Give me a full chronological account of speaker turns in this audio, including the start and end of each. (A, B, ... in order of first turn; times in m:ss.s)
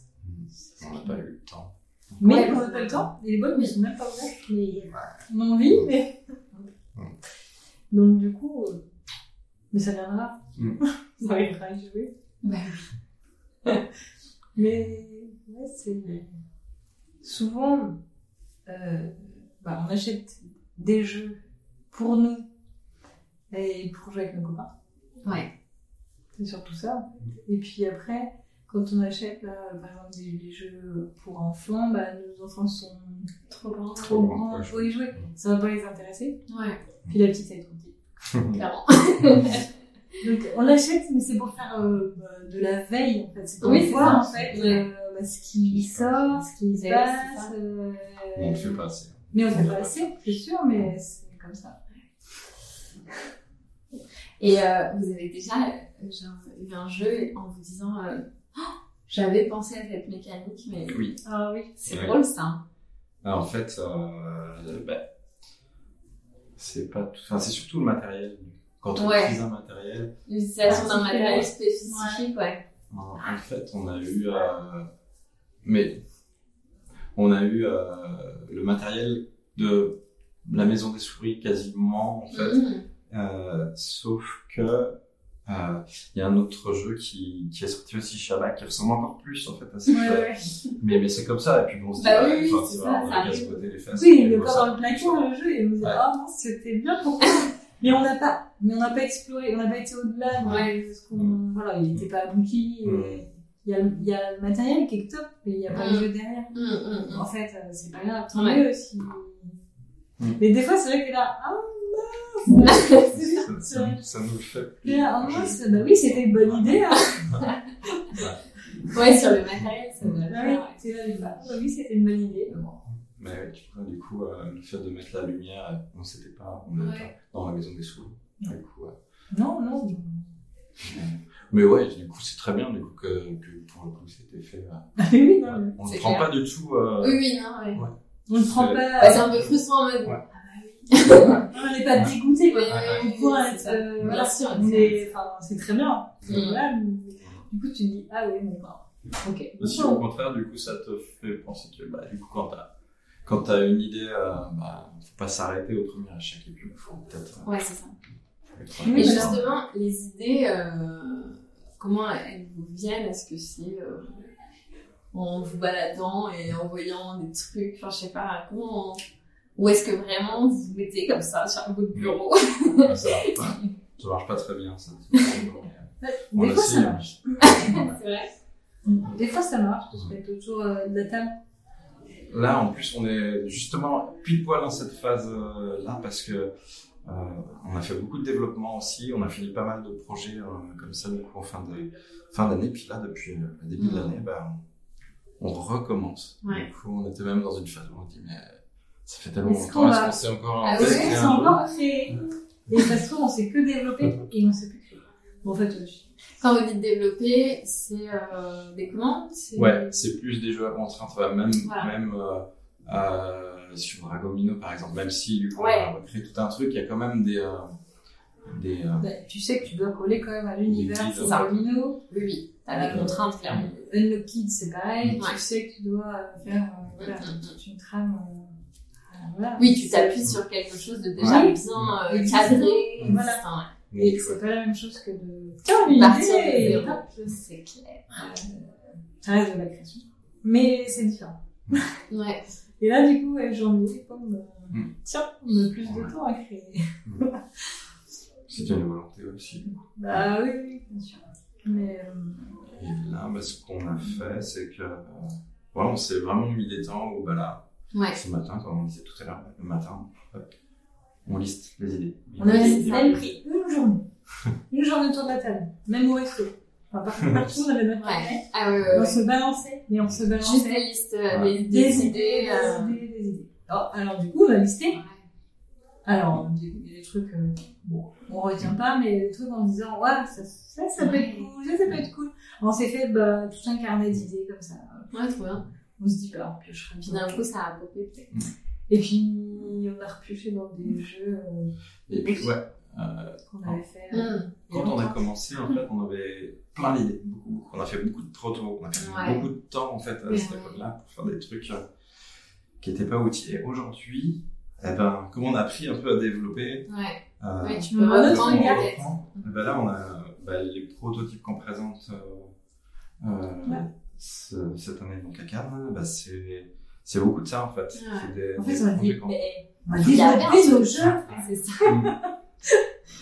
0:00.2-0:02.6 A
0:00.8-0:01.1 B
0:02.2-0:06.7 B
0:02.2-0:03.7 C
0:04.9-0:05.9 A
0:07.9-0:08.8 B
0:09.7-0:12.1 B
0:10.6-0:10.8 A
0:12.4-0:12.9 C
0:14.6-0:16.3 B
0:17.2-0:18.0 B
0:18.7-0:21.4 B
0:21.9-0:22.5 B
0:23.5-0:24.7 B
0:25.2-0:25.5 C
0:26.4-0:36.4 B
0:33.5-0:34.2 C
0:34.0-0:35.3 A
0:36.5-0:36.8 C
0:37.1-0:38.0 B
0:38.3-0:38.6 A
0:38.5-0:39.6 C
0:40.2-0:48.8 B
0:43.6-0:44.8 A
0:43.6-0:44.8 C
0:45.6-0:46.4 A
0:46.7-0:47.5 C
0:48.4-0:50.9 A
0:49.3-0:51.8 B
0:54.4-1:01.0 C
1:00.9-1:01.2 A
1:01.2-1:01.7 B
1:01.8-1:02.6 C
1:01.9-1:02.2 A
1:03.2-1:05.0 A
1:06.6-1:10.1 A
1:09.0-1:09.4 C
1:10.3-1:12.6 C
1:10.6-1:10.9 A
1:10.6-1:12.2 B
1:12.9-1:14.9 A
1:15.6-1:16.0 A
1:17.2-1:25.0 A
1:22.3-1:22.8 C
1:25.5-1:35.2 A
1:29.9-1:30.5 B
1:32.0-1:33.6 C
1:33.9-1:49.6 B
1:40.4-1:41.4 A
1:40.4-1:40.8 C
1:42.8-1:43.2 A
1:45.8-1:47.3 C
1:48.3-1:48.6 C
1:50.4-1:54.0 B
1:52.6-1:53.1 C
1:52.9-1:57.5 A
1:54.8-1:57.3 B
1:58.1-1:58.4 A
1:58.8-1:59.4 B
1:58.9-2:01.5 C
2:00.0-2:00.3 A
2:00.3-2:02.7 B
2:02.6-2:09.0 A
2:06.8-2:07.1 C
2:09.3-2:10.4 B
2:10.8-2:17.2 A
2:15.0-2:15.8 B
2:15.8-2:16.3 C
2:17.0-2:17.8 C
2:17.7-2:20.2 A
2:18.3-2:19.3 B
2:19.0-2:20.2 C
2:20.4-2:28.8 B
2:20.9-2:21.5 C
2:21.1-2:21.4 A
2:22.5-2:25.0 C
2:22.7-2:23.1 A
2:24.0-2:25.0 A
2:26.3-2:26.6 C
2:29.2-2:29.5 C
2:29.6-2:30.0 B
2:29.6-2:32.7 A
2:33.2-2:37.5 A
2:37.4-2:37.9 C
2:38.5-2:39.5 A
2:38.8-2:39.4 B
2:38.9-2:44.2 C
2:45.1-2:49.0 C
2:49.6-2:53.7 C
2:52.8-2:58.0 A
2:55.1-2:55.5 C
2:56.0-2:57.8 B
2:57.4-2:58.3 C
2:58.9-3:01.3 B
3:02.3-3:06.5 A
3:07.0-3:14.6 A
3:13.8-3:14.1 C
3:15.4-3:21.6 A
3:19.4-3:20.2 B
3:20.6-3:21.6 C
3:20.7-3:26.1 B
3:26.4-3:29.9 C
3:29.6-3:37.7 A
3:31.6-3:31.9 C
3:35.6-3:35.9 C
3:38.5-3:39.1 A
3:39.0-3:42.0 B
3:40.6-3:41.7 A
3:41.2-3:41.6 C
3:42.1-3:43.7 C
3:42.7-3:48.5 B
3:42.9-3:43.7 A
3:47.0-3:47.6 C
3:49.1-3:50.4 B
3:49.6-3:53.7 C
3:51.2-3:52.0 A
3:51.2-3:53.4 B
3:53.0-3:53.2 A
3:53.9-3:54.4 A
3:54.0-3:57.4 B
3:55.9-3:58.2 C
3:58.1-4:02.0 B
4:02.1-4:02.4 C
4:02.8-4:07.8 B
4:05.8-4:06.1 A
4:08.5-4:10.3 A
4:09.7-4:12.8 B
4:12.8-4:20.5 A
4:17.9-4:18.2 C
4:21.2-4:23.2 A
4:22.4-4:24.0 B
4:22.4-4:23.3 C
4:24.7-4:30.8 B
4:27.2-4:27.6 A
4:28.0-4:29.2 C
4:28.8-4:29.1 A
4:30.4-4:33.0 C
4:31.3-4:32.1 A
4:31.6-4:35.0 B
4:34.9-4:35.2 C
4:36.1-4:45.1 B
4:41.0-4:41.5 C
4:45.1-4:45.6 C
4:46.0-4:47.4 B
4:47.1-4:48.5 C
4:48.9-4:52.5 B
4:52.1-4:53.8 A
4:53.5-4:55.2 B
4:54.1-4:54.5 C
4:54.7-5:01.9 A
4:59.0-4:59.5 C
5:00.3-5:00.8 C
5:02.8-5:06.9 A
5:06.9-5:09.5 C
5:07.4-5:12.5 A
5:07.9-5:08.9 B
5:13.2-5:19.4 A
5:17.9-5:18.3 C
5:18.6-5:22.9 B
5:20.0-5:22.0 C
5:20.0-5:20.4 A
5:21.0-5:22.1 A